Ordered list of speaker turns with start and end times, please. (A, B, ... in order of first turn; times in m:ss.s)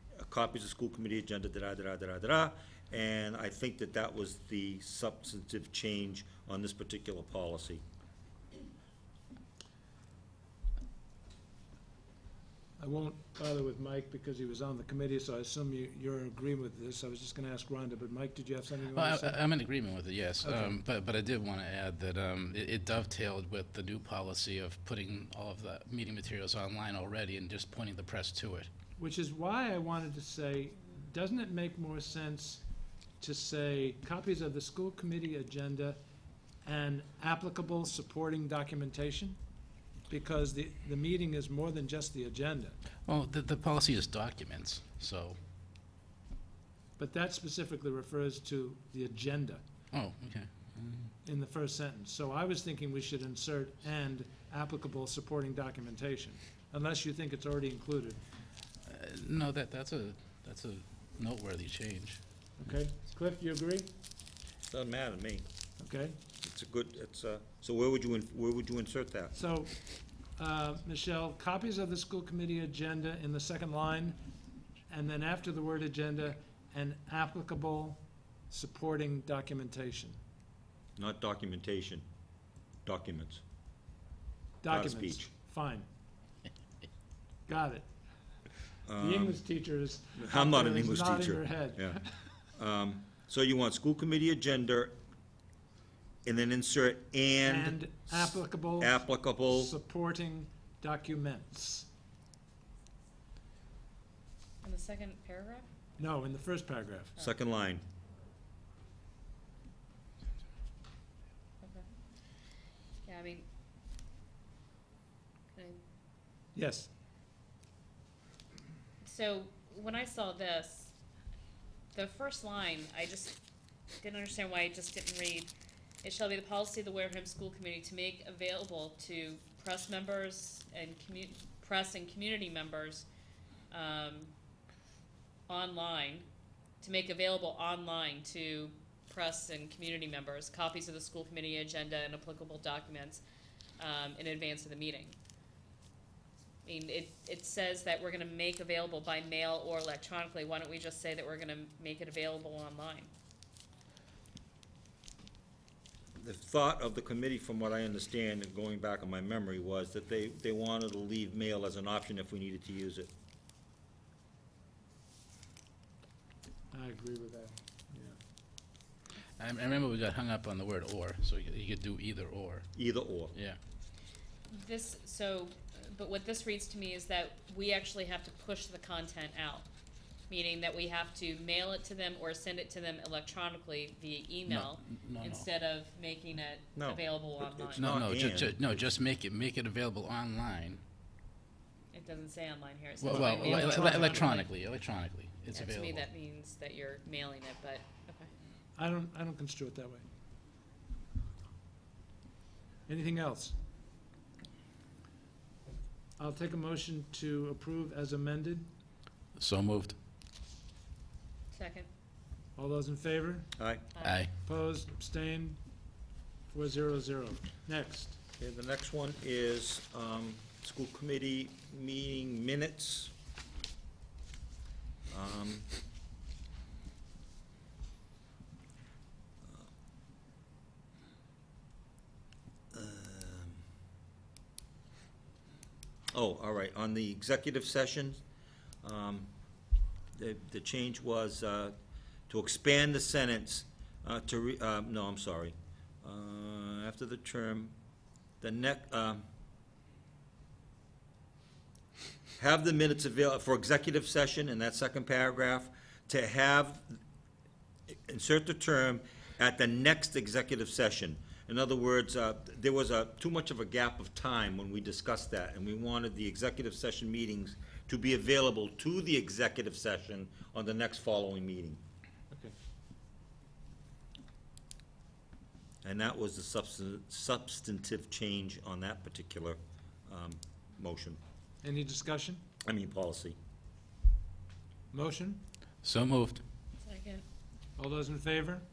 0:00.2-0:07.8 A
0:12.8-0:19.4 B
0:18.8-0:28.7 C
0:20.4-0:20.8 B
0:29.0-0:32.6 B
0:33.2-0:36.0 B
0:36.6-0:39.4 B
0:40.1-0:42.8 B
0:43.0-0:45.4 C
0:47.0-0:49.6 B
0:49.9-0:51.1 C
0:51.2-0:58.2 B
0:58.9-1:02.2 C
1:02.6-1:03.9 B
1:04.7-1:05.4 A
1:05.8-1:06.2 B
1:06.4-1:09.3 A
1:09.3-1:09.7 B
1:10.4-1:14.2 B
1:14.9-1:20.2 B
1:21.0-1:22.0 A
1:22.8-1:23.4 A
1:24.6-1:25.8 B
1:24.7-1:25.3 A
1:27.5-1:27.9 B
1:28.8-1:29.4 A
1:29.0-1:32.3 B
1:30.2-1:32.0 A
1:32.5-1:35.0 A
1:36.2-1:37.8 A
1:37.4-1:41.9 B
1:38.8-1:39.7 A
1:44.6-1:45.6 D
1:46.0-1:47.1 B
1:47.2-1:47.8 A
1:53.0-1:53.4 D
1:55.5-1:55.8 D
1:56.5-1:56.9 B
1:59.0-2:00.9 D
2:01.9-2:03.4 D
2:04.0-2:05.5 D
2:06.0-2:13.0 D
2:13.7-2:14.3 D
2:15.5-2:16.2 D
2:16.8-2:23.2 D
2:23.8-2:25.2 D
2:26.6-2:33.1 D
2:36.2-2:43.1 A
2:46.7-2:48.2 B
2:49.4-2:52.7 C
2:52.8-2:53.3 A
2:54.5-2:59.6 D
3:00.3-3:07.9 D
3:04.4-3:05.5 C
3:06.8-3:08.6 A
3:07.8-3:10.8 C
3:11.9-3:14.5 D
3:13.0-3:16.1 C
3:13.1-3:14.4 B
3:15.5-3:18.3 D
3:18.8-3:20.0 B
3:22.9-3:23.6 B
3:26.2-3:28.7 B
3:29.4-3:29.9 C
3:31.5-3:31.9 D
3:32.6-3:33.5 B
3:33.6-3:33.8 A
3:33.9-3:34.3 D
3:34.0-3:34.3 C
3:34.4-3:35.6 B
3:36.5-3:38.2 B
3:38.4-3:43.1 A
3:45.1-3:45.7 A
3:52.7-3:53.6 A
3:56.1-3:58.2 A
3:58.8-3:59.3 A
4:00.1-4:01.8 A
4:02.3-4:07.7 A
4:08.4-4:09.2 A
4:12.4-4:17.0 A
4:17.9-4:31.8 A
4:32.3-4:32.5 B
4:35.8-4:41.2 A
4:41.6-4:42.4 B
4:42.6-4:43.4 A
4:44.9-4:45.4 B
4:45.8-4:46.4 C
4:46.8-4:47.2 D
4:47.8-4:48.6 B